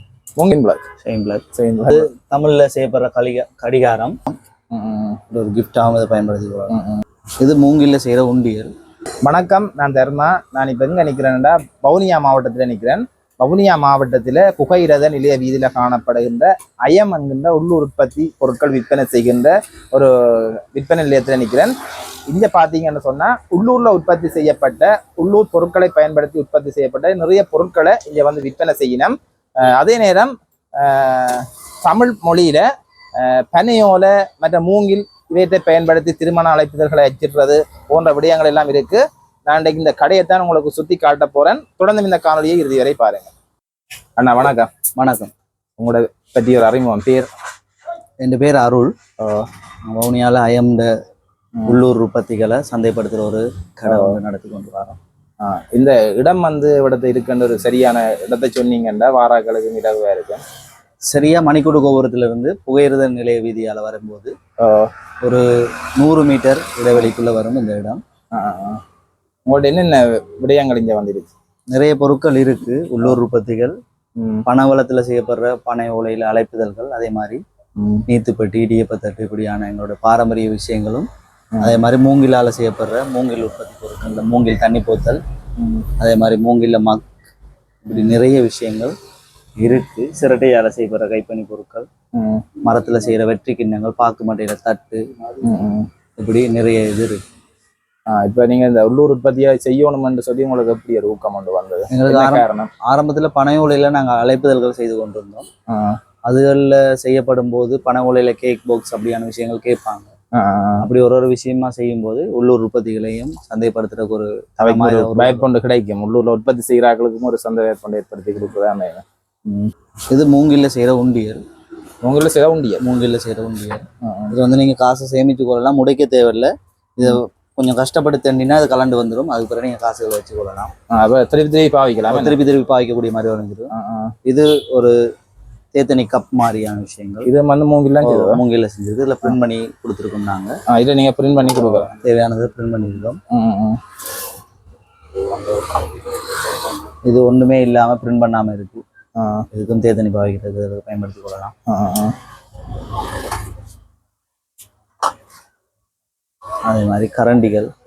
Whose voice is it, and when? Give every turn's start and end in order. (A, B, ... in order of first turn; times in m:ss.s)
0:00.4-0:00.8 A
0:01.0-0:04.4 B
0:01.5-0:02.1 A
0:04.7-0:05.2 A
0:05.3-0:06.7 B
0:06.7-0:07.0 A
0:07.4-0:08.7 B
0:09.2-0:21.8 A
0:22.3-0:32.6 A
0:33.2-0:43.3 A
0:44.2-0:44.7 A
0:45.0-0:45.3 B
0:45.8-0:47.3 A
0:48.2-0:48.9 B
0:49.2-0:49.5 A
0:49.9-0:50.9 B
0:51.7-0:55.0 B
0:53.8-0:54.2 A
0:55.4-1:00.4 A
1:01.0-1:04.3 B
1:04.6-1:04.9 A
1:05.2-1:08.0 B
1:08.3-1:08.8 A
1:09.5-1:11.3 A
1:11.7-1:13.8 B
1:14.2-1:14.4 A
1:14.4-1:17.4 B
1:17.8-1:18.0 A
1:18.1-1:21.1 B
1:21.5-1:21.8 A
1:21.6-1:25.2 B
1:25.6-1:25.9 A
1:26.0-1:27.1 B
1:27.8-1:28.9 B
1:29.6-1:31.9 B
1:32.1-1:32.5 A
1:32.6-1:35.0 B
1:35.4-1:35.9 A
1:36.2-1:37.2 B
1:38.1-1:42.7 A
1:41.9-1:45.5 B
1:45.7-1:46.0 A
1:46.2-1:50.1 B
1:50.3-1:50.8 A
1:50.8-1:55.5 B
1:54.6-1:59.7 A
2:00.1-2:01.4 B
2:02.0-2:02.8 A
2:02.8-2:10.7 B
2:04.0-2:04.4 A
2:10.9-2:12.4 A
2:12.1-2:13.7 B
2:13.7-2:14.1 A
2:14.2-2:15.0 B
2:15.7-2:17.3 B
2:17.2-2:18.4 A
2:18.0-2:20.6 B
2:20.7-2:21.9 A
2:21.6-2:23.2 B
2:23.3-2:23.8 A
2:27.0-2:28.8 B
2:29.2-2:29.4 A
2:29.5-2:31.5 B
2:31.7-2:32.2 A
2:36.6-2:37.7 B